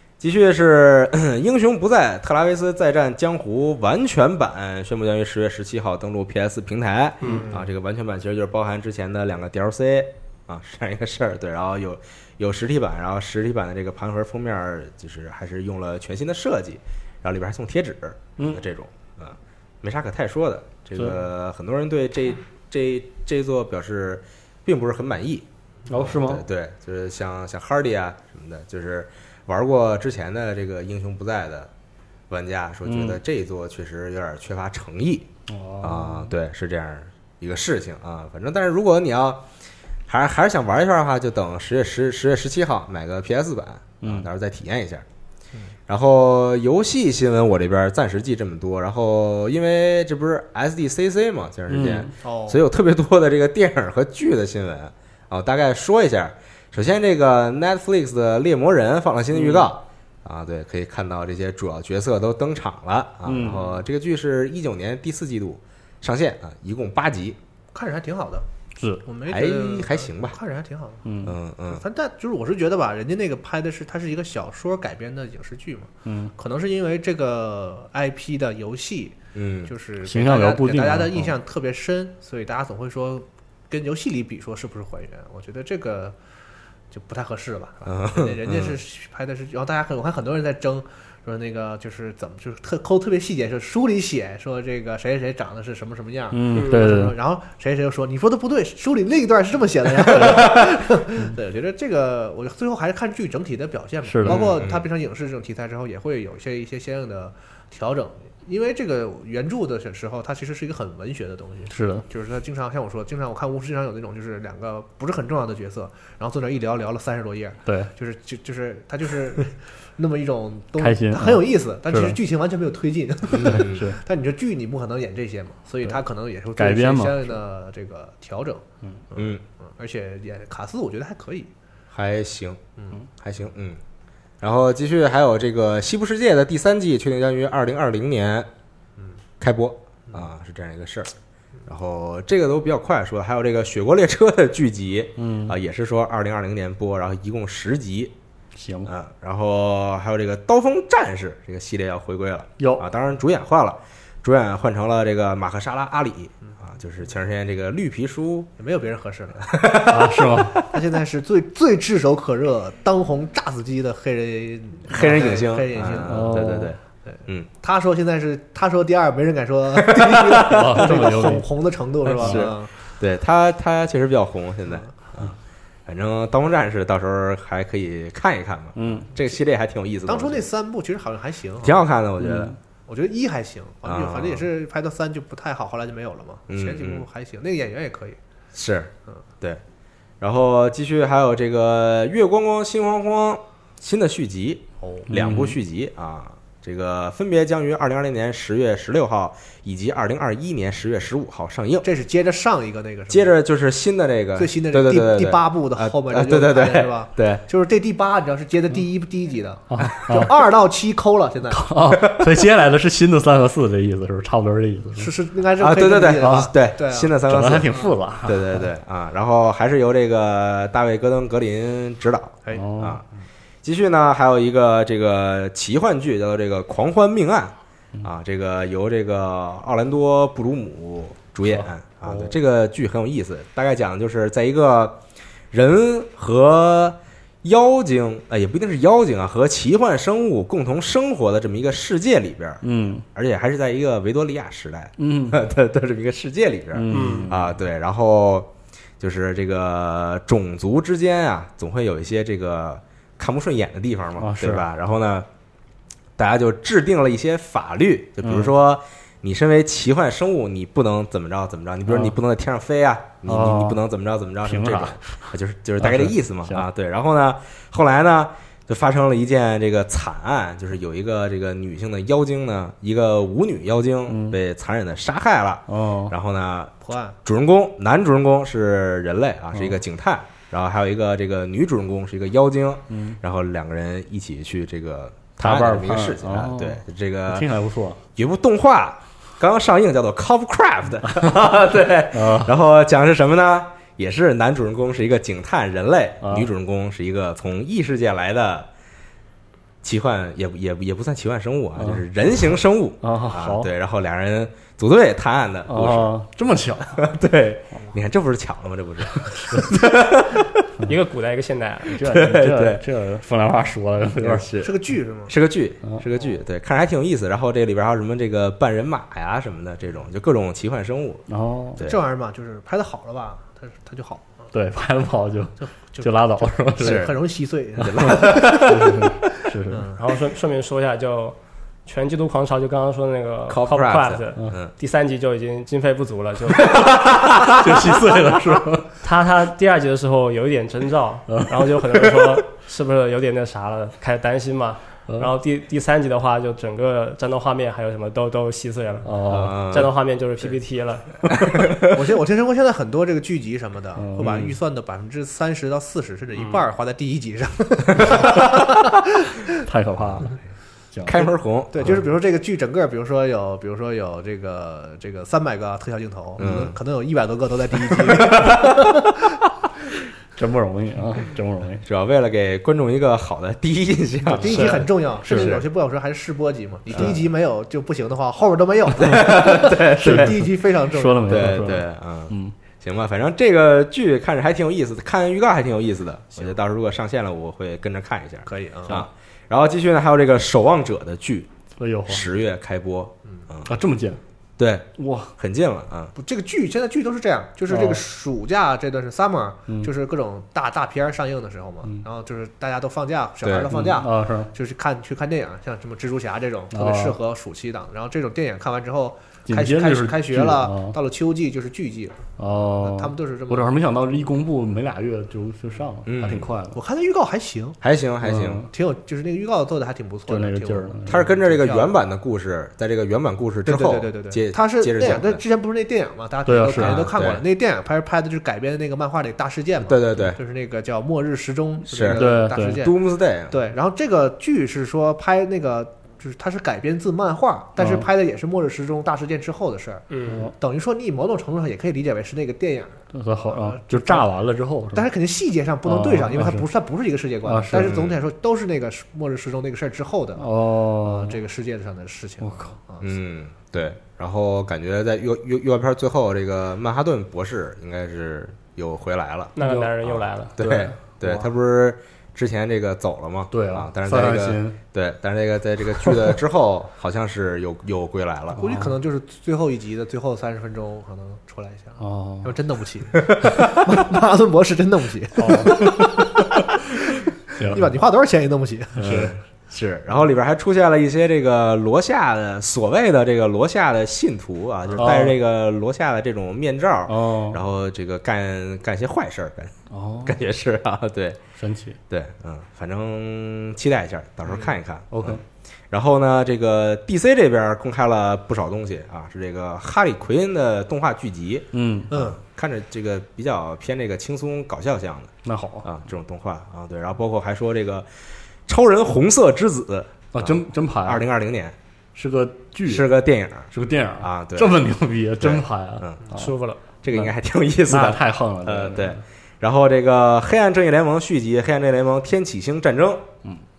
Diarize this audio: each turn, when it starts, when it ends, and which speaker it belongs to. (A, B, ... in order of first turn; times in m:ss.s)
0:00.2-0:25.5 A
0:07.2-0:07.5 B
0:07.2-0:07.6 C
0:18.4-0:18.6 D
0:25.9-0:26.4 D
0:26.0-0:31.7 A
0:32.3-0:35.3 A
0:32.9-0:33.2 D
0:35.5-0:36.3 D
0:35.8-0:39.4 A
0:40.1-0:45.0 A
0:44.0-0:44.3 D
0:45.9-1:07.4 A
0:51.7-0:52.1 D
0:52.2-0:52.6 C
1:03.3-1:03.7 D
1:07.7-1:08.4 C
1:08.8-1:09.0 D
1:09.0-1:11.1 C
1:09.3-1:10.4 A
1:11.0-1:11.4 D
1:11.2-1:11.8 A
1:11.7-1:26.2 C
1:16.0-1:16.3 D
1:19.4-1:19.7 A
1:20.0-1:21.3 D
1:26.9-2:11.5 C
1:27.9-1:28.8 A
1:36.3-1:37.1 D
1:36.5-1:37.0 B
1:44.0-1:44.6 D
1:44.2-1:44.9 A
1:51.7-1:52.0 D
2:00.8-2:02.2 D
2:03.3-2:03.9 A
2:03.4-2:04.0 D
2:06.6-2:07.4 D
2:09.1-2:09.4 A
2:11.9-2:12.6 A
2:13.2-2:13.8 A
2:14.4-2:18.5 A
2:19.4-2:21.1 A
2:21.7-2:28.1 A
2:25.2-2:25.6 D
2:28.6-2:28.9 D
2:28.9-2:38.5 A
2:32.6-2:32.8 D
2:38.6-2:39.7 C
2:39.5-2:40.7 A
2:39.8-2:40.6 D
2:40.6-2:46.5 C
2:44.9-2:47.5 A
2:46.0-2:46.8 D
2:47.1-2:52.7 C
2:49.8-2:50.9 A
2:50.4-2:51.5 D
2:52.0-2:52.5 D
2:52.2-3:00.4 A
2:58.8-2:59.1 D
3:00.1-3:01.9 C
3:01.6-3:02.6 A
3:02.2-3:02.6 D
3:02.9-3:08.2 C
3:03.8-3:04.5 A
3:06.5-3:07.0 A
3:08.5-3:09.6 A
3:10.2-3:21.9 A
3:14.8-3:15.1 C
3:15.1-3:15.6 D
3:21.8-3:23.4 C
3:23.1-3:27.4 A
3:24.4-3:31.7 C
3:29.7-3:30.3 D
3:31.5-3:35.1 D
3:32.0-3:32.4 A
3:35.0-3:37.2 C
3:35.6-3:43.0 A
3:36.2-3:36.5 D
3:37.2-3:38.7 D
3:42.4-3:43.3 C
3:42.5-3:43.0 D
3:43.6-3:55.0 A
3:55.5-4:15.3 A
4:02.6-4:03.0 D
4:05.0-4:05.4 D
4:06.7-4:07.5 D
4:06.9-4:07.3 B
4:14.2-4:14.6 D
4:16.2-4:47.5 A
4:18.2-4:18.5 D
4:21.9-4:22.2 D
4:23.3-4:23.8 D
4:24.4-4:25.3 D
4:25.8-4:26.7 D
4:34.1-4:34.4 D
4:35.7-4:36.2 D
4:36.8-4:37.2 C
4:42.9-4:43.2 D
4:45.4-4:48.0 D
4:48.2-4:58.7 A
4:52.1-4:52.5 D
4:56.2-4:56.5 D
4:59.8-5:06.1 A
5:03.0-5:03.7 D
5:05.7-5:07.1 D
5:06.9-5:10.7 A
5:10.8-5:12.0 B
5:11.9-5:14.5 D
5:12.0-5:12.8 A
5:14.2-5:14.7 A
5:14.6-5:15.3 C
5:15.3-5:21.3 A
5:21.3-5:21.8 D
5:21.8-5:22.0 A
5:21.8-5:24.5 C
5:24.5-5:27.1 D
5:25.6-5:28.6 C
5:26.8-5:27.2 A
5:27.8-5:29.2 A
5:27.8-5:29.8 D
5:29.7-5:30.0 C
5:30.0-5:36.8 B
5:33.5-5:34.7 A
5:36.7-5:38.6 A
5:37.4-5:38.9 D
5:39.0-5:51.2 B
5:41.3-5:41.6 D
5:49.0-5:49.8 D
5:49.3-5:49.9 A
5:51.4-5:51.9 A
5:51.9-5:59.5 C
5:54.0-5:54.5 D
5:54.2-5:54.5 A
5:58.0-5:58.5 A
5:59.6-6:00.4 D
6:00.9-6:01.3 D
6:01.0-6:02.0 A
6:01.7-6:09.1 C
6:06.4-6:06.8 A
6:07.9-6:08.9 A
6:10.4-6:11.8 D
6:11.8-6:15.6 A
6:14.3-6:15.6 D
6:14.3-6:21.7 C
6:16.9-6:17.2 A
6:19.0-6:20.5 A
6:20.0-6:22.6 D
6:21.3-6:31.5 A
6:28.5-6:29.0 C
6:31.8-6:32.3 D
6:32.1-6:33.7 A
6:33.6-6:34.2 D
6:34.6-6:36.1 A
6:35.0-6:35.3 D
6:36.2-6:53.7 C
6:37.7-6:38.0 D
6:43.4-6:43.7 A
6:43.7-6:44.5 D
6:46.7-6:47.2 D
6:49.5-6:51.0 D
6:52.4-6:56.8 D
6:56.1-6:56.5 A
6:56.7-6:57.8 C
6:57.8-6:58.7 A
6:58.2-6:58.7 D
6:58.7-7:02.0 C
7:00.3-7:01.3 D
7:01.1-7:05.4 A
7:03.6-7:24.3 C
7:06.5-7:07.1 D
7:06.8-7:07.4 A
7:09.8-7:10.4 A
7:11.9-7:13.6 A
7:12.1-7:12.8 D
7:17.8-7:18.1 D
7:20.1-7:20.5 B
7:20.3-7:20.5 D
7:23.1-7:25.1 D
7:24.9-7:33.1 C
7:25.9-7:26.6 D
7:27.4-7:28.0 D
7:27.8-7:28.2 A
7:30.4-7:31.4 D
7:32.4-7:32.7 D
7:33.0-7:48.7 A
7:39.6-7:40.6 B
7:39.6-7:39.9 D
7:40.6-7:40.9 D
7:43.5-7:44.8 D
7:48.6-7:48.9 D
7:48.6-7:59.3 C
7:52.0-7:52.6 D
7:53.3-7:53.8 A
7:55.4-7:56.5 D
7:57.5-7:57.9 D
7:59.0-7:59.4 D
7:59.0-8:11.4 A
8:04.9-8:05.2 C
8:05.0-8:05.4 D
8:07.1-8:07.6 D
8:09.9-8:10.4 D
8:11.6-8:12.0 D
8:12.1-8:28.1 A
8:14.5-8:14.8 C
8:15.1-8:15.4 D
8:21.7-8:22.1 D
8:22.1-8:22.4 C
8:25.4-8:25.9 D
8:28.7-8:31.8 A
8:30.3-8:31.3 D
8:32.2-8:33.1 D
8:32.8-8:34.8 A
8:33.7-8:36.5 D
8:35.4-8:36.2 A
8:36.3-8:36.8 B
8:37.0-8:43.3 A
8:37.9-8:39.2 D